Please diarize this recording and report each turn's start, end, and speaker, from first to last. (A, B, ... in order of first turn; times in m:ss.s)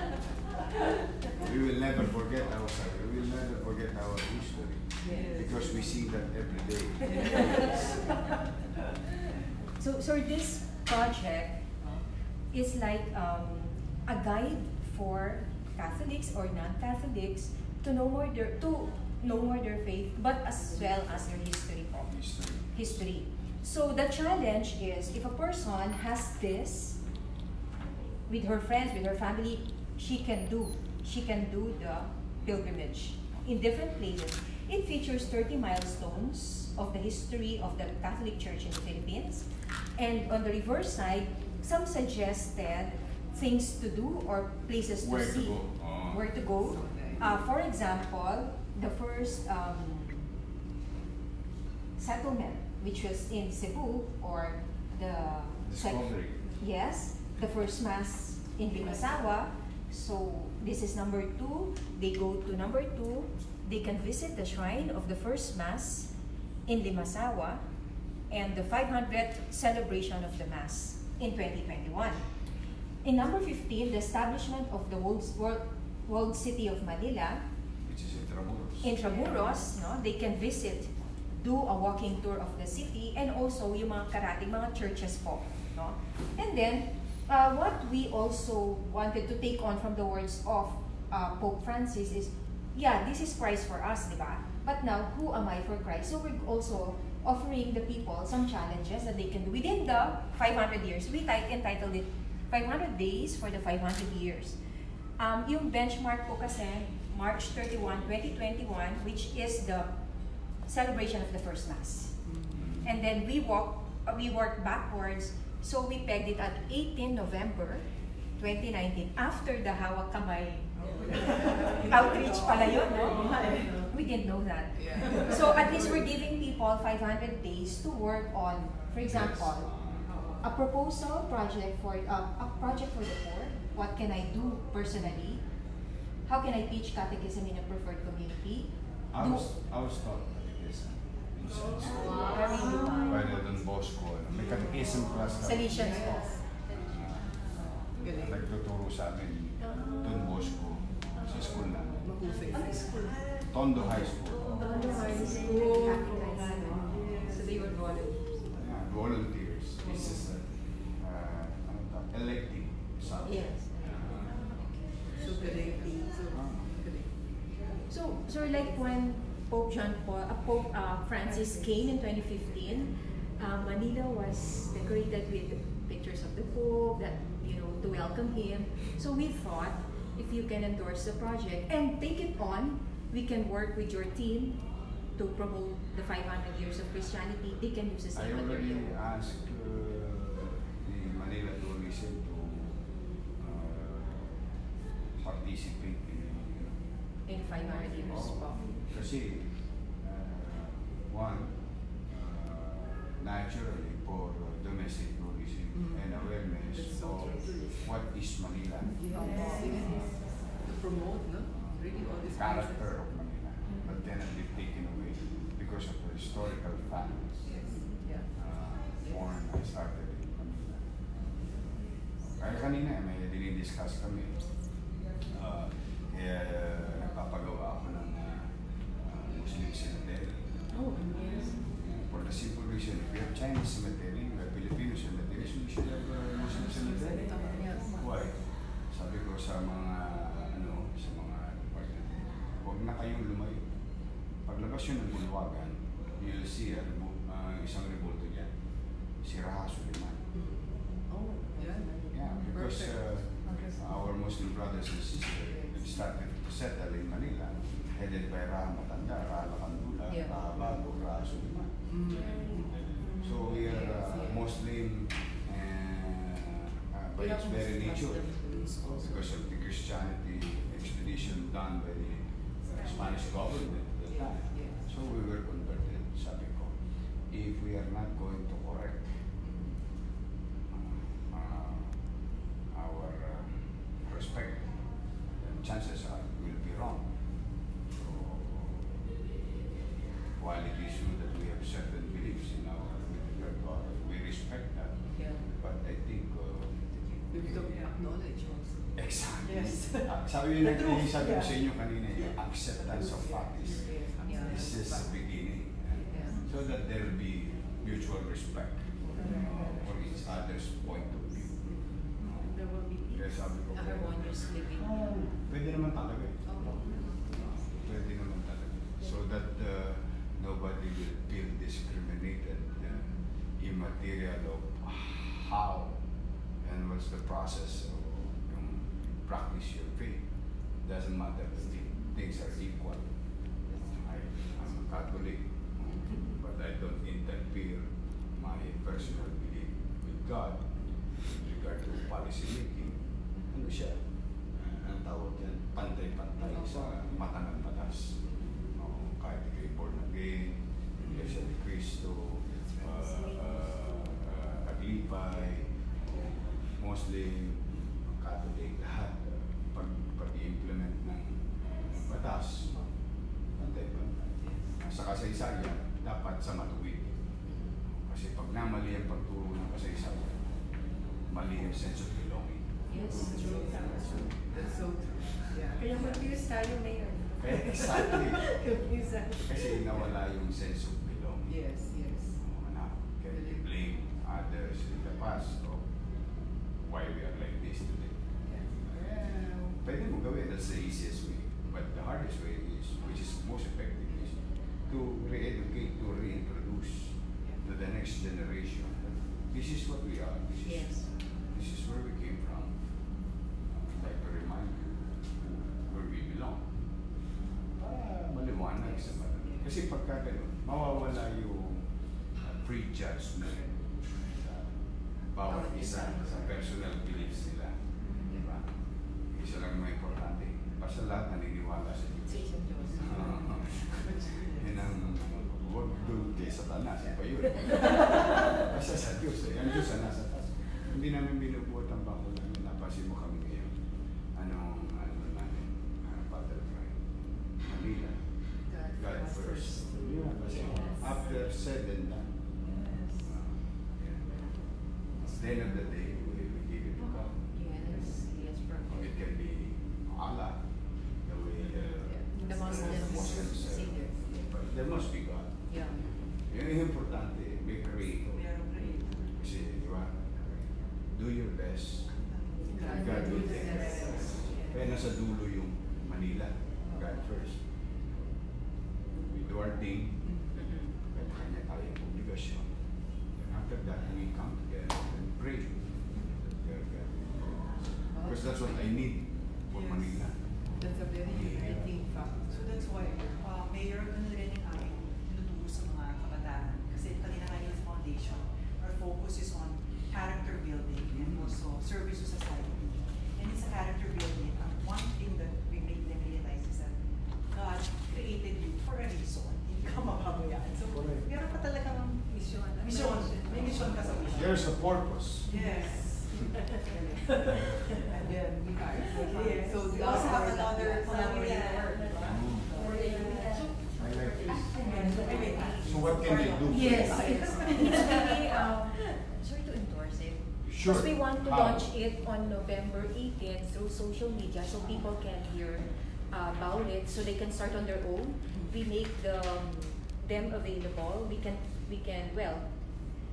0:01.4-0:07.9 A
0:05.0-0:05.5 B
0:05.0-0:06.0 C
0:09.8-0:11.7 D
0:12.5-0:22.2 D
0:22.0-0:22.7 A
0:22.7-0:27.0 D
0:28.3-0:50.3 D
0:32.4-0:32.7 A
0:45.0-0:46.3 A
0:46.7-0:47.3 B
0:52.0-1:06.1 D
0:55.6-0:56.4 A
1:06.6-1:07.6 D
1:08.3-1:12.2 D
1:13.0-1:17.4 D
1:17.8-1:18.9 A
1:18.8-1:44.6 D
1:45.2-1:49.9 D
1:50.6-1:52.2 D
1:52.2-1:52.6 B
1:52.5-1:52.8 A
1:52.8-2:09.7 D
2:00.8-2:03.9 C
2:00.8-2:01.9 B
2:01.2-2:03.9 E
2:04.8-2:05.8 B
2:05.1-2:05.6 C
2:09.0-2:10.1 A
2:10.0-2:10.4 C
2:10.4-2:15.4 D
2:16.2-2:19.5 D
2:19.1-2:32.1 A
2:22.0-2:23.3 D
2:25.4-2:26.4 D
2:28.0-2:28.4 B
2:29.6-2:30.6 E
2:29.7-2:30.3 C
2:31.2-2:31.7 E
2:32.0-2:33.0 B
2:32.3-2:32.9 E
2:32.4-2:38.0 C
2:33.4-2:34.8 A
2:34.5-2:36.4 E
2:34.6-2:38.3 D
2:38.6-2:44.5 A
2:39.9-2:40.2 C
2:43.2-2:43.8 D
2:45.1-2:47.1 B
2:45.6-2:45.9 C
2:46.3-2:46.6 A
2:47.9-3:08.9 D
3:08.1-3:12.8 A
3:13.4-3:14.4 A
3:15.1-3:16.7 A
3:17.2-3:18.6 D
3:18.0-3:29.0 A
3:25.8-3:26.1 B
3:26.6-3:27.9 B
3:28.9-3:32.9 B
3:29.2-3:30.1 E
3:32.3-3:37.5 A
3:37.5-3:38.3 B
3:38.4-3:40.8 A
3:42.2-3:44.4 A
3:45.3-3:50.4 A
3:51.7-4:03.7 A
3:56.7-3:58.0 B
4:04.4-4:08.5 A
4:09.2-4:10.2 A
4:10.4-4:13.8 B
4:12.1-4:21.7 A
4:21.9-4:24.4 B
4:22.1-4:23.4 E
4:23.0-4:36.8 A
4:27.2-4:29.1 B
4:32.7-4:33.2 E
4:34.1-4:34.8 B
4:37.3-4:39.2 A
4:40.7-4:41.9 A
4:42.7-4:44.8 A
4:45.4-4:47.1 A
4:47.9-4:49.0 A
4:50.4-4:56.8 A
4:55.2-4:55.4 B
4:57.3-4:58.9 B
4:57.3-4:57.7 A
4:59.0-5:26.0 A
4:59.4-5:01.6 C
5:03.6-5:05.1 B
5:04.2-5:04.8 C
5:06.1-5:06.4 B
5:09.1-5:09.6 B
5:09.2-5:09.4 C
5:09.2-5:09.6 E
5:09.2-5:09.4 D
5:11.6-5:12.1 B
5:12.2-5:13.4 E
5:13.7-5:14.9 D
5:16.5-5:17.0 B
5:26.6-5:30.2 A
5:30.7-5:33.1 A
5:34.0-5:44.0 A
5:44.6-5:48.2 A
5:48.7-6:02.7 A
5:51.0-5:51.3 B
5:52.7-5:53.0 B
6:03.6-6:07.2 A
6:08.0-6:10.4 A
6:11.3-6:14.4 A
6:12.9-6:13.7 D
6:13.0-6:15.9 B
6:13.2-6:14.2 E
6:15.8-6:20.0 E
6:17.4-6:18.5 A
6:19.4-6:21.6 A
6:21.5-6:22.4 B
6:22.4-6:25.9 A
6:26.8-6:28.2 A
6:28.8-6:42.7 A
6:43.7-6:46.7 A
6:47.8-6:54.7 A
6:55.3-6:58.7 A
6:55.5-6:56.4 B
6:59.3-7:04.0 A
7:02.4-7:04.2 B
7:02.9-7:04.9 C
7:04.6-7:13.7 A
7:14.3-7:17.0 A
7:17.6-7:18.2 A
7:18.7-7:21.1 B
7:18.8-7:22.3 A
7:22.6-7:23.2 C
7:25.2-7:27.3 A
7:27.7-7:28.9 D
7:28.9-7:30.6 A
7:31.2-7:35.8 A
7:32.0-7:34.3 B
7:32.5-7:33.9 D
7:36.4-7:38.7 A
7:38.3-7:39.3 C
7:39.4-7:40.4 A
7:41.1-7:42.1 A
7:42.3-7:44.9 C
7:42.7-7:44.5 B
7:42.7-7:47.6 A
7:49.2-7:50.4 A
7:51.0-7:52.7 A
7:53.4-7:55.8 A
7:56.6-8:00.4 A
7:58.1-7:58.7 B
7:59.7-8:00.3 C
8:00.8-8:02.7 B
8:01.2-8:01.9 A
8:02.5-8:24.7 C
8:20.9-8:21.2 A
8:22.3-8:24.0 E
8:24.3-8:25.5 A
8:25.4-8:33.6 C
8:26.4-8:26.7 E
8:28.2-8:31.4 B
8:29.6-8:33.7 E
8:32.2-8:32.7 A
8:32.7-8:33.7 B
8:32.8-8:35.9 D
8:34.0-8:34.8 A
8:34.4-8:38.3 C
8:34.8-8:35.6 E
8:35.8-8:37.5 A
8:36.6-8:52.7 D
8:37.1-8:38.6 E
8:37.2-8:37.8 B
8:40.6-8:41.9 A